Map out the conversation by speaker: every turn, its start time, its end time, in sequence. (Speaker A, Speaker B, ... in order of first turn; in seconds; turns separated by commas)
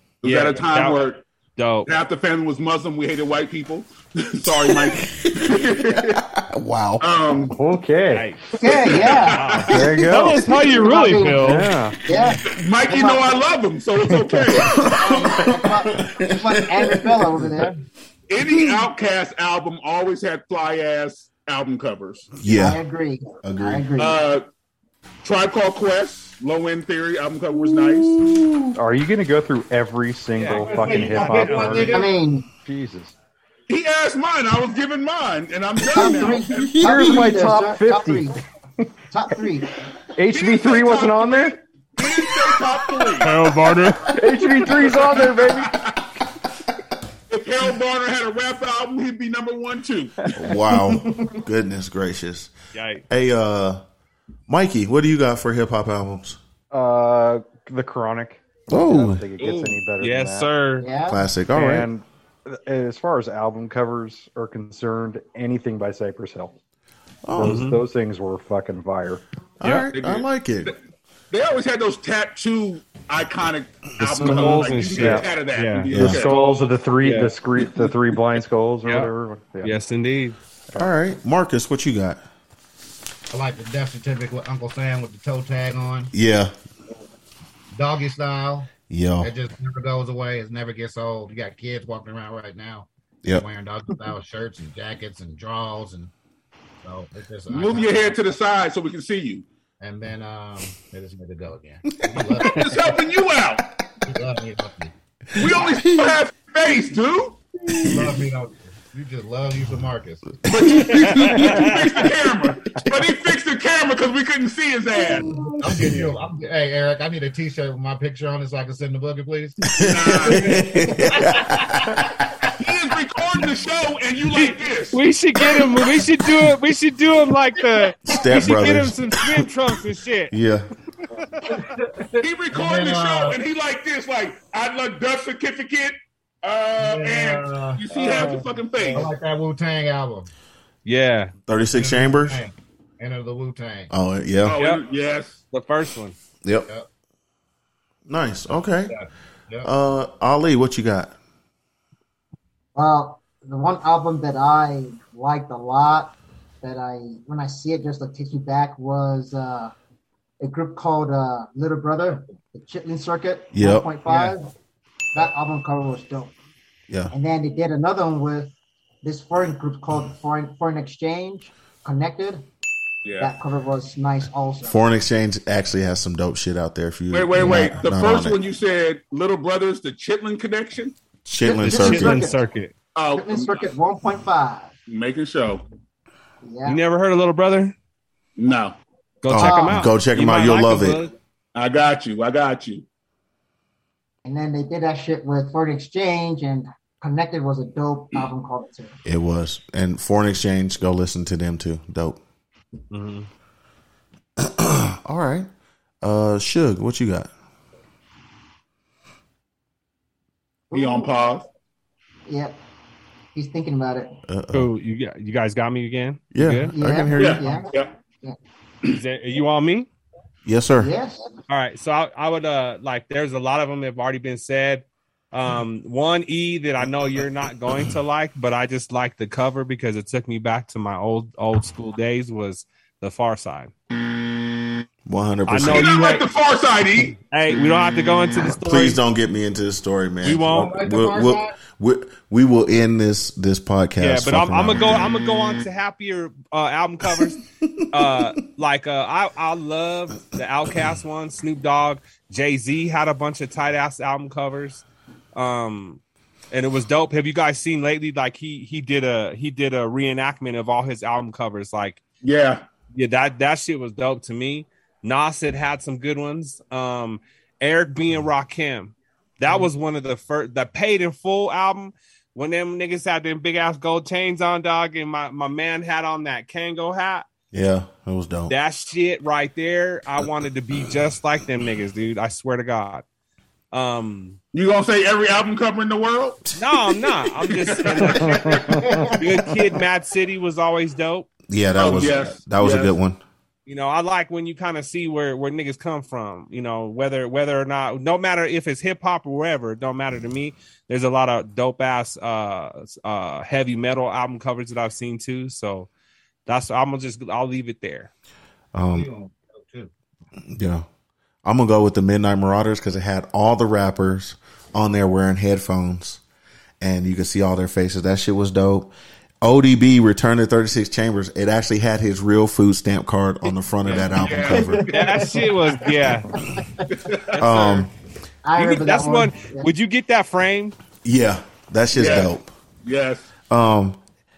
Speaker A: 0.2-1.2, Speaker B: 0.2-1.9, Speaker A: 1.9-6.2, Speaker C: 4.4-7.1, Speaker A: 7.0-7.5, Speaker D: 7.5-8.3, Speaker B: 8.1-8.4, Speaker E: 8.6-9.4, Speaker A: 8.6-9.8, Speaker B: 9.2-11.7, Speaker C: 9.7-10.4, Speaker D: 9.7-12.0, Speaker E: 10.7-13.4, Speaker A: 12.5-14.8, Speaker C: 14.5-17.6, Speaker E: 14.8-17.8, Speaker A: 18.3-22.3, Speaker C: 22.4-22.8, Speaker E: 22.5-24.2, Speaker C: 23.4-23.9, Speaker A: 24.0-24.4, Speaker A: 25.2-28.2, Speaker C: 27.5-28.8, Speaker D: 28.8-33.1, Speaker B: 30.4-31.9, Speaker F: 30.5-32.1, Speaker E: 31.9-32.4, Speaker A: 33.7-36.8, Speaker E: 35.9-38.4, Speaker C: 35.9-37.2, Speaker D: 36.8-38.3, Speaker E: 39.1-39.7, Speaker D: 40.1-41.6, Speaker A: 40.3-43.3, Speaker B: 43.2-44.1, Speaker D: 44.1-45.7, Speaker A: 44.7-46.1, Speaker A: 47.3-50.2, Speaker C: 50.3-52.5, Speaker B: 52.7-53.0, Speaker C: 53.1-53.8, Speaker C: 54.5-56.4, Speaker D: 56.7-60.5, Speaker C: 58.7-59.2, Speaker A: 59.4-59.7, Speaker B: 59.5-60.9, Speaker E: 60.8-61.2, Speaker C: 61.1-61.9, Speaker D: 61.5-66.5, Speaker C: 67.2-67.7, Speaker D: 67.4-69.2, Speaker B: 67.4-67.8, Speaker C: 69.6-70.7, Speaker A: 69.9-70.8, Speaker A: 71.3-76.7, Speaker D: 74.1-75.3, Speaker B: 74.1-76.3, Speaker C: 75.9-76.3, Speaker D: 76.0-79.7, Speaker B: 77.0-77.3, Speaker B: 78.8-79.1, Speaker B: 79.6-80.3, Speaker C: 80.7-82.2, Speaker F: 83.3-86.1, Speaker C: 86.1-86.5, Speaker F: 87.7-96.1, Speaker C: 88.9-89.3, Speaker F: 96.8-98.2, Speaker A: 97.5-99.4, Speaker F: 99.8-102.7, Speaker A: 102.4-103.7, Speaker F: 104.0-104.9, Speaker A: 105.3-107.4, Speaker C: 105.4-106.2, Speaker C: 107.7-108.2, Speaker F: 107.8-110.4, Speaker C: 110.5-111.8, Speaker A: 110.5-115.3, Speaker B: 110.9-111.7, Speaker C: 115.0-116.2, Speaker F: 115.6-119.7, Speaker C: 119.7-122.2, Speaker A: 119.8-120.6, Speaker F: 120.2-120.6, Speaker F: 121.1-121.8, Speaker A: 122.6-125.0, Speaker B: 124.3-130.3, Speaker C: 128.1-129.5, Speaker C: 130.3-130.7, Speaker B: 131.1-131.7, Speaker F: 131.5-133.4, Speaker A: 132.2-139.1, Speaker F: 136.8-137.8, Speaker B: 137.9-139.0, Speaker F: 138.9-140.3, Speaker B: 140.8-141.3, Speaker C: 141.5-142.4, Speaker F: 141.7-143.9, Speaker C: 143.9-144.6, Speaker A: 144.4-145.4, Speaker B: 145.5-146.2, Speaker C: 148.1-148.9, Speaker F: 148.9-149.7, Speaker C: 149.6-151.1, Speaker E: 152.8-159.7, Speaker E: 160.4-164.5, Speaker C: 163.5-163.9, Speaker E: 165.1-166.3, Speaker E: 167.1-172.4, Speaker A: 173.0-173.3, Speaker E: 173.2-174.8, Speaker C: 174.6-178.4, Speaker A: 177.1-180.9, Speaker C: 181.2-182.3, Speaker E: 181.4-182.4, Speaker B: 181.6-182.7, Speaker A: 182.9-183.6, Speaker E: 183.1-184.7, Speaker A: 184.9-185.6, Speaker E: 186.4-186.8, Speaker B: 186.7-187.7, Speaker A: 188.4-188.8, Speaker B: 189.2-191.1, Speaker C: 189.3-191.0, Speaker E: 189.3-189.8, Speaker A: 191.5-192.8, Speaker E: 194.2-199.0, Speaker C: 199.0-202.2, Speaker B: 202.9-203.3, Speaker C: 204.4-205.5, Speaker C: 206.0-207.3, Speaker E: 210.7-211.1, Speaker A: 210.7-211.4, Speaker E: 212.2-212.6, Speaker E: 213.3-214.2, Speaker C: 214.3-214.7, Speaker B: 214.5-216.7, Speaker C: 216.3-217.6, Speaker E: 216.7-217.7, Speaker A: 217.1-217.9, Speaker B: 218.9-219.9, Speaker C: 220.4-220.9, Speaker E: 220.8-221.3, Speaker B: 221.5-233.7, Speaker C: 235.1-235.9, Speaker B: 235.5-236.2, Speaker A: 235.7-237.2, Speaker B: 237.3-239.0, Speaker C: 238.6-245.1, Speaker B: 240.2-240.7, Speaker F: 240.5-241.5, Speaker B: 244.0-247.4, Speaker B: 247.9-262.0, Speaker A: 262.2-262.6, Speaker B: 262.9-277.2, Speaker C: 277.5-278.5, Speaker B: 278.5-283.0, Speaker B: 283.7-284.4, Speaker A: 284.5-286.4, Speaker C: 286.5-287.3, Speaker B: 286.6-291.3, Speaker A: 287.6-288.9, Speaker D: 288.5-288.9, Speaker C: 291.5-293.2, Speaker A: 291.8-292.9, Speaker B: 293.6-305.9, Speaker B: 306.4-308.1, Speaker C: 308.7-309.1, Speaker F: 308.9-309.9, Speaker C: 310.5-310.8, Speaker C: 311.4-316.2, Speaker C: 316.8-324.9, Speaker A: 323.8-325.6, Speaker E: 324.5-325.1, Speaker B: 324.9-326.3, Speaker A: 326.9-327.4, Speaker B: 327.3-327.9, Speaker C: 327.4-327.9, Speaker E: 328.4-329.7, Speaker B: 328.6-330.8, Speaker C: 331.0-332.5, Speaker A: 331.9-332.3, Speaker A: 332.8-333.3, Speaker C: 333.5-334.0